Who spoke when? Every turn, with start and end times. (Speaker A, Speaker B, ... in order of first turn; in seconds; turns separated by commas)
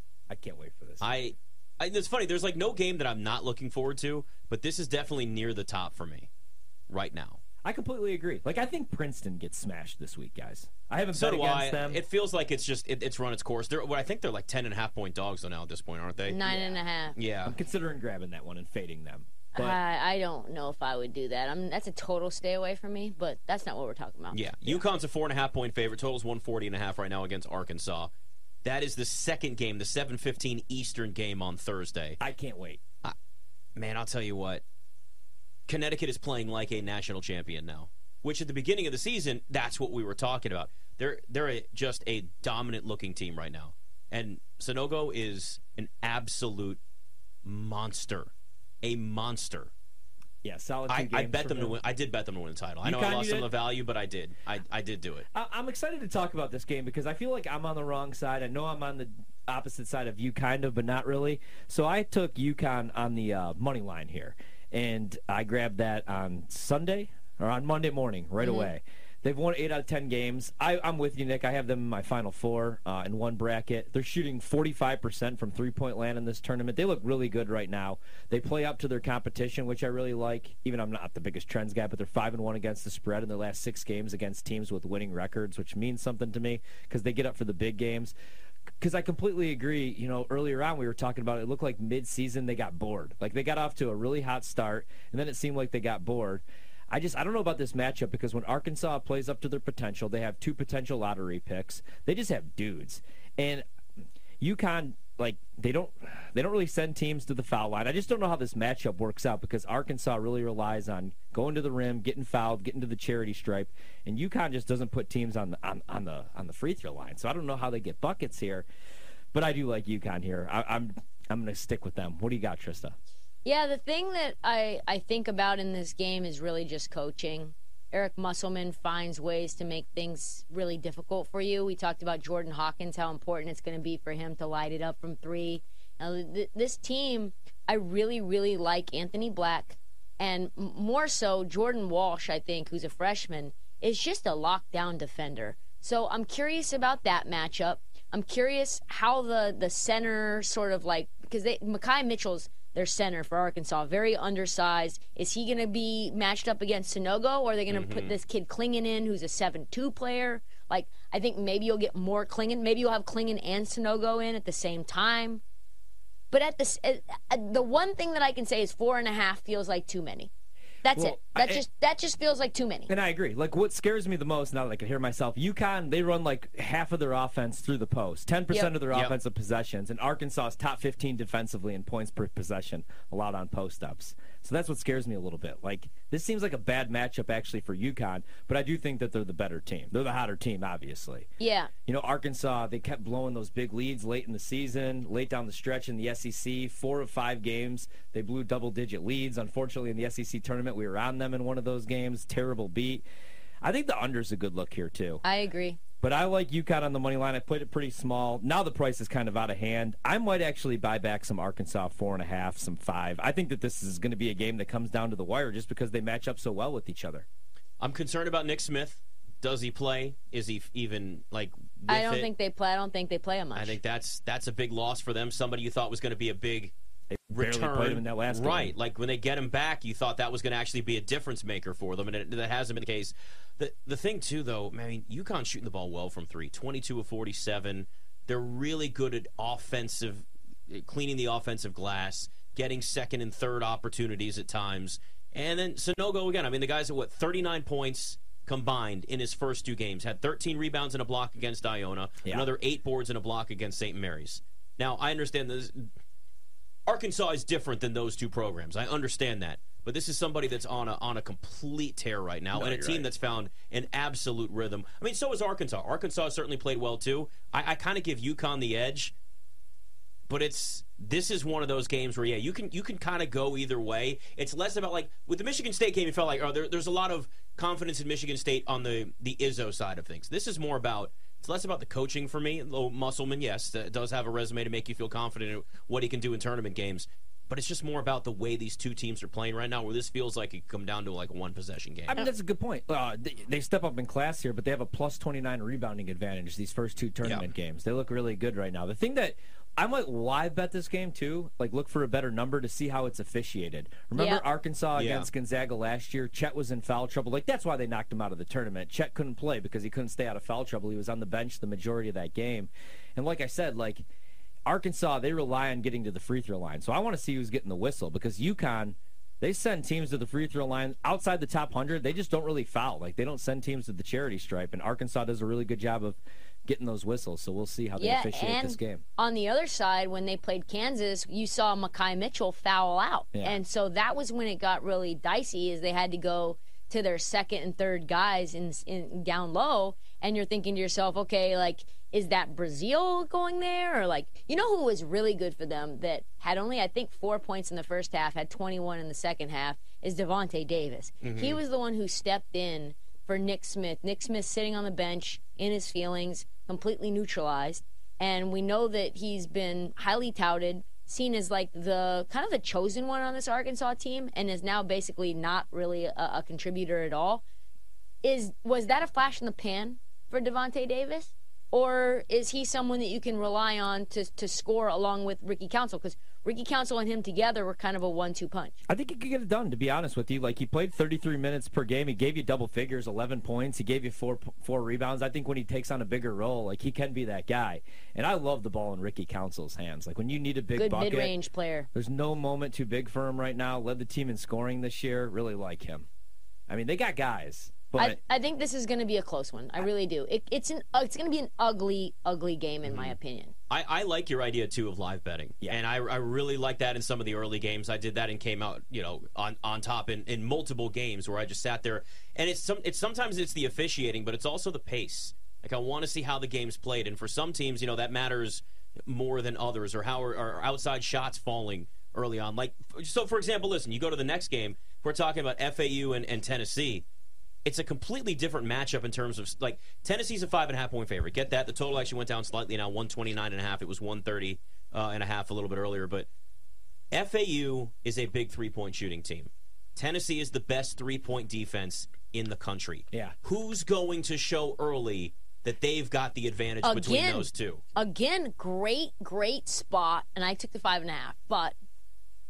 Speaker A: 0.3-1.1, Speaker B: 1.0-6.3, Speaker B: 6.9-7.4, Speaker A: 7.6-12.0, Speaker B: 11.1-16.4, Speaker C: 16.3-17.2, Speaker A: 16.4-16.8, Speaker B: 17.1-17.6, Speaker A: 17.4-19.8, Speaker C: 19.6-24.6, Speaker B: 24.3-28.1, Speaker B: 28.6-32.2, Speaker A: 32.2-32.8, Speaker B: 33.8-34.6, Speaker B: 35.7-46.8, Speaker B: 47.4-49.7, Speaker A: 50.4-51.8, Speaker B: 50.9-55.2, Speaker A: 52.8-53.5, Speaker A: 55.3-88.1, Speaker C: 68.4-68.7, Speaker A: 88.8-103.6, Speaker A: 104.4-118.7, Speaker A: 119.3-123.0, Speaker C: 123.5-165.4, Speaker B: 157.7-158.2, Speaker C: 166.3-170.3, Speaker C: 170.8-172.9, Speaker A: 170.9-171.6, Speaker A: 172.9-191.3, Speaker C: 178.5-178.8, Speaker C: 191.4-191.7, Speaker A: 191.9-203.0, Speaker A: 203.6-205.2, Speaker C: 205.2-205.8, Speaker A: 206.0-217.3, Speaker B: 217.8-222.3, Speaker C: 221.9-223.8, Speaker B: 223.6-226.7, Speaker A: 227.1-228.8, Speaker B: 227.3-255.9, Speaker B: 256.9-269.1, Speaker A: 262.5-263.1, Speaker B: 270.3-292.3, Speaker A: 292.1-314.1, Speaker B: 297.2-297.5, Speaker C: 304.1-304.4, Speaker B: 304.9-305.3, Speaker A: 314.7-329.0, Speaker C: 328.0-367.4, Speaker A: 333.3-333.6, Speaker B: 351.2-351.6, Speaker C: 368.2-378.8, Speaker A: 378.9-391.3, Speaker C: 390.8-391.9, Speaker A: 391.9-396.1, Speaker A: 396.7-398.2, Speaker C: 398.0-403.5, Speaker B: 402.9-403.2, Speaker B: 403.7-427.1, Speaker B: 427.6-436.3, Speaker B: 437.1-447.8, Speaker C: 446.8-451.8